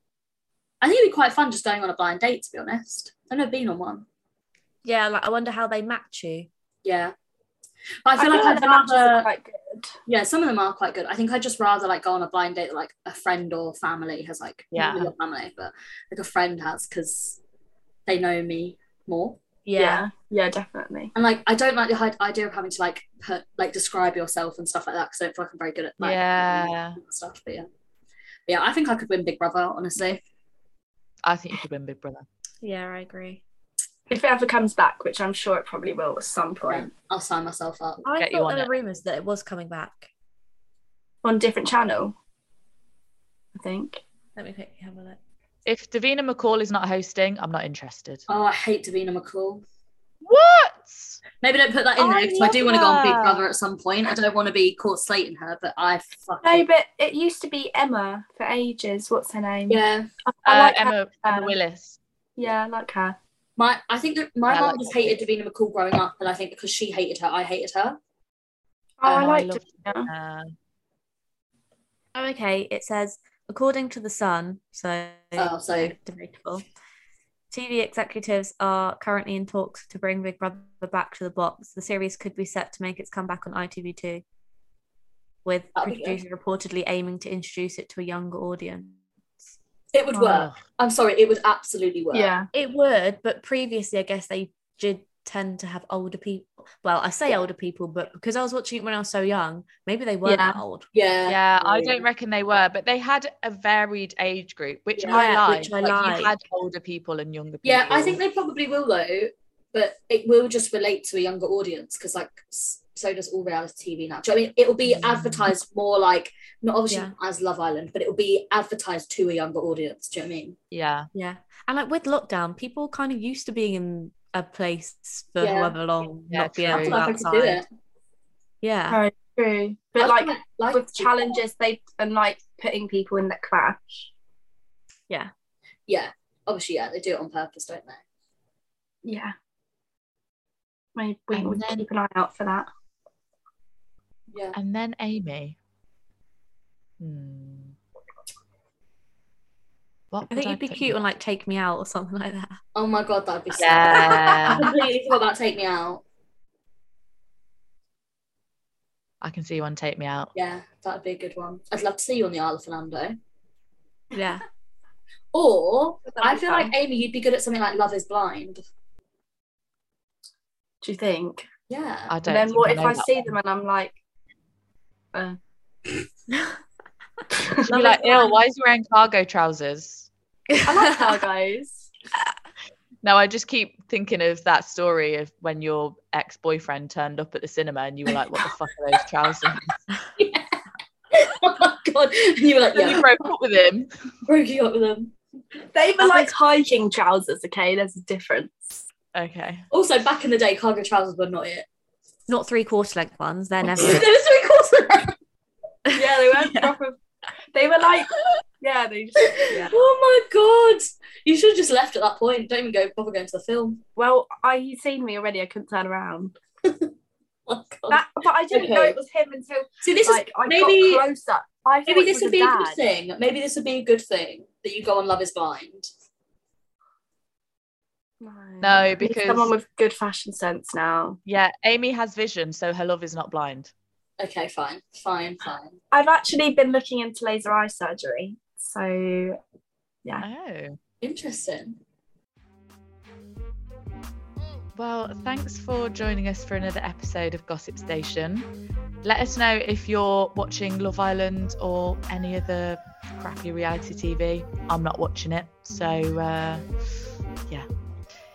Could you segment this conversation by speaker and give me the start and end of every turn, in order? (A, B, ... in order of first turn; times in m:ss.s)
0:00.8-0:04.0 A
0:04.8-0:06.5 B
0:06.8-0:07.1 A
0:08.0-0:09.3 A
0:08.1-0:09.9 C
0:10.1-0:17.4 A
0:14.7-0:15.1 D
0:18.1-0:19.4 A
0:19.6-0:20.0 B
0:19.8-0:21.1 C
0:21.1-0:27.7 A
0:26.0-0:27.0 D
0:28.5-0:30.2 A
0:31.2-0:32.2 D
0:32.6-0:33.4 B
0:34.1-0:36.9 C
0:36.7-0:38.0 A
0:38.0-0:40.1 B
0:38.2-0:38.7 D
0:41.2-0:42.1 C
0:43.5-0:44.0 C
0:44.4-0:45.2 B
0:45.6-0:48.2 D
0:48.3-0:49.6 A
0:50.2-0:51.2 D
0:51.4-0:56.6 A
0:52.0-0:53.4 D
0:56.4-1:01.5 C
0:59.7-1:00.1 A
1:00.4-1:02.0 D
1:02.4-1:03.2 C
1:03.6-1:08.0 A
1:04.5-1:05.2 D
1:09.0-1:10.1 C
1:09.0-1:10.5 D
1:12.1-1:16.6 B
1:15.4-1:15.9 A
1:17.5-1:24.2 B
1:25.4-1:29.0 B
1:25.8-1:26.2 A
1:29.9-1:32.3 A
1:30.2-1:30.6 D
1:32.1-1:32.5 C
1:32.5-1:40.8 B
1:40.2-1:40.6 C
1:40.9-1:42.0 A
1:41.3-1:48.2 D
1:44.9-1:45.2 A
1:45.1-1:46.3 B
1:47.6-2:00.6 A
1:54.8-1:55.5 D
1:56.9-1:57.1 B
2:00.7-2:01.1 D
2:01.1-2:07.6 B
2:05.4-2:05.7 A
2:06.3-2:07.1 D
2:06.7-2:07.7 A
2:08.6-2:09.0 B
2:08.9-2:14.1 C
2:10.0-2:11.4 A
2:15.9-2:18.0 A
2:19.0-2:19.3 C
2:20.9-2:22.7 C
2:21.3-2:21.9 D
2:24.3-2:24.6 A
2:24.5-2:25.6 D
2:27.0-2:27.8 D
2:30.1-2:31.0 D
2:30.3-2:32.5 B
2:32.7-2:36.0 A
2:33.6-2:34.7 D
2:39.2-2:40.3 D
2:40.3-2:43.2 A
2:44.1-2:44.4 B
2:45.3-2:48.6 A
2:46.1-2:46.7 C
2:50.8-2:51.4 C
2:51.7-2:52.2 A
2:52.1-2:53.3 D
2:52.2-2:54.0 C
2:55.1-2:55.4 C
2:57.6-3:00.1 D
2:57.7-2:58.3 B
3:00.6-3:01.9 C
3:03.0-3:09.7 D
3:10.2-3:10.6 A
3:11.1-3:13.0 A
3:12.8-3:13.9 D
3:14.2-3:15.1 A
3:15.7-3:18.8 C
3:16.0-3:16.3 B
3:19.1-3:19.6 D
3:19.7-3:21.6 A
3:22.3-3:24.1 B
3:23.7-3:25.2 A
3:25.9-3:26.7 B
3:25.9-3:27.0 C
3:27.5-3:29.7 C
3:29.3-3:33.8 A
3:34.0-3:36.4 C
3:36.6-3:36.9 A
3:37.5-3:39.0 A
3:37.9-3:42.8 C
3:39.8-3:41.0 A
3:41.9-3:45.9 A
3:48.2-3:51.2 C
3:48.6-3:49.5 D
3:51.2-3:53.7 D
3:54.2-3:55.8 A
3:55.9-3:59.4 C
4:00.2-4:00.8 D
4:01.0-4:01.8 A
4:04.8-4:08.5 D
4:09.0-4:16.7 D